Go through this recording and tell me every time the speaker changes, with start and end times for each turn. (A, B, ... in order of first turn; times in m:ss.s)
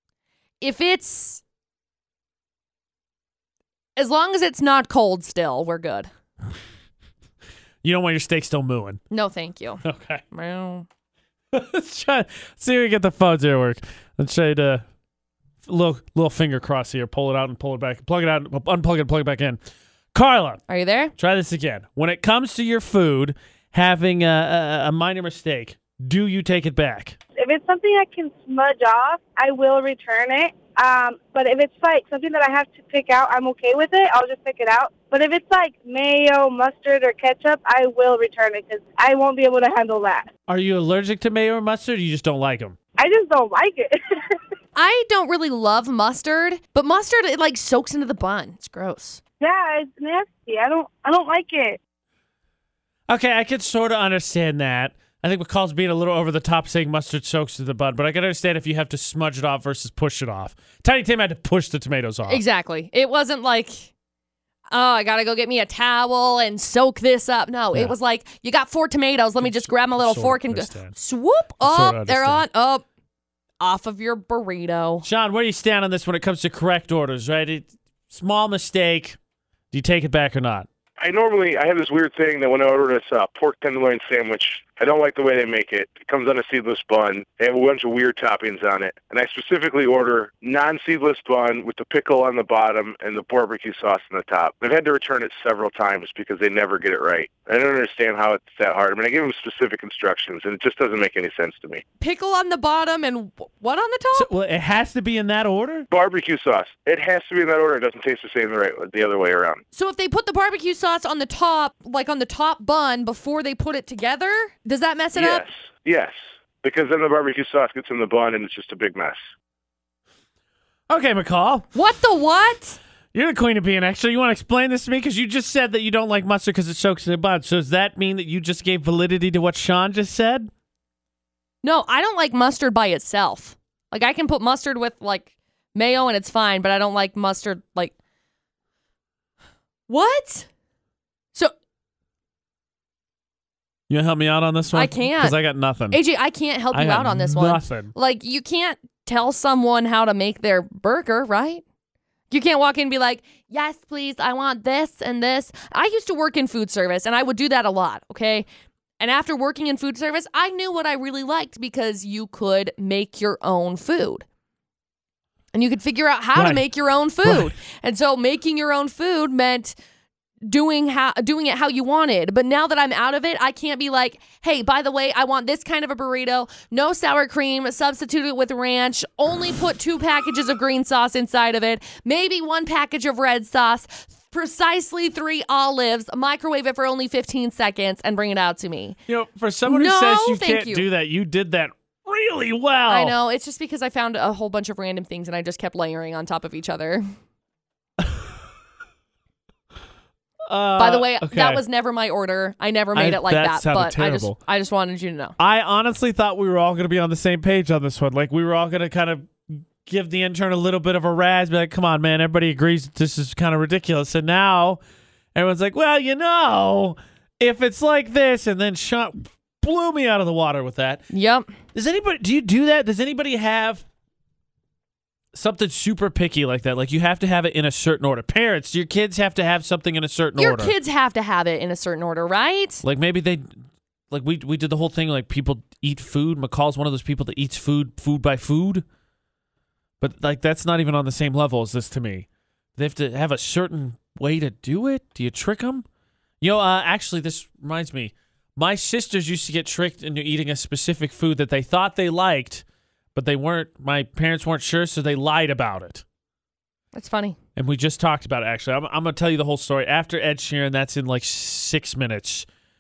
0:00.6-0:01.4 A
0:04.0-0:06.1 A
0:07.8-0:09.0 B
0:09.1-0:10.9 A
0:09.8-0:10.2 B
0:11.5-0:14.8 B
0:15.6-0:19.6 B
0:20.1-0:20.6 B
0:20.7-0:21.1 A
0:21.2-0:27.2 B
0:27.4-0:40.3 C
0:40.5-0:42.8 B
0:43.0-0:44.0 C
0:44.8-0:49.2 A
0:49.4-0:51.8 C
0:53.1-1:02.4 B
1:02.2-1:03.9 A
1:04.7-1:12.8 A
1:09.4-1:11.0 B
1:11.6-1:12.4 B
1:13.6-1:15.1 A
1:15.0-1:19.2 B
1:19.7-1:20.7 B
1:21.0-1:41.8 D
1:42.0-1:44.3 A
1:44.1-1:45.9 B
1:45.9-1:49.6 D
1:49.7-1:55.4 A
1:55.2-1:59.2 D
2:00.9-2:01.7 B
2:01.7-2:02.8 A
2:03.1-2:10.5 B
2:11.6-2:17.9 A
2:19.9-2:20.5 A
2:23.9-2:26.0 B
2:24.7-2:25.4 A
2:25.9-2:31.6 A
2:26.7-2:27.9 B
2:32.3-2:38.5 A
2:39.0-2:44.2 A
2:45.5-2:49.8 A
2:46.4-2:46.6 B
2:47.2-2:47.6 B
2:50.4-3:09.0 A
3:09.1-3:13.2 B
3:09.7-3:10.9 A
3:12.9-3:17.1 A
3:18.0-3:18.3 B
3:20.5-3:21.6 B
3:20.8-3:25.4 A
3:23.0-3:24.4 B
3:25.4-3:34.8 B
3:35.4-3:41.0 B
3:41.1-3:41.6 A
3:41.7-3:43.8 B
3:45.3-3:50.7 B
3:50.4-3:52.8 A
3:52.8-3:58.8 B
4:00.0-4:02.3 B
4:02.8-4:05.8 B
4:06.4-4:12.6 B
4:13.1-4:16.0 B
4:16.9-4:17.4 A
4:17.6-4:22.5 B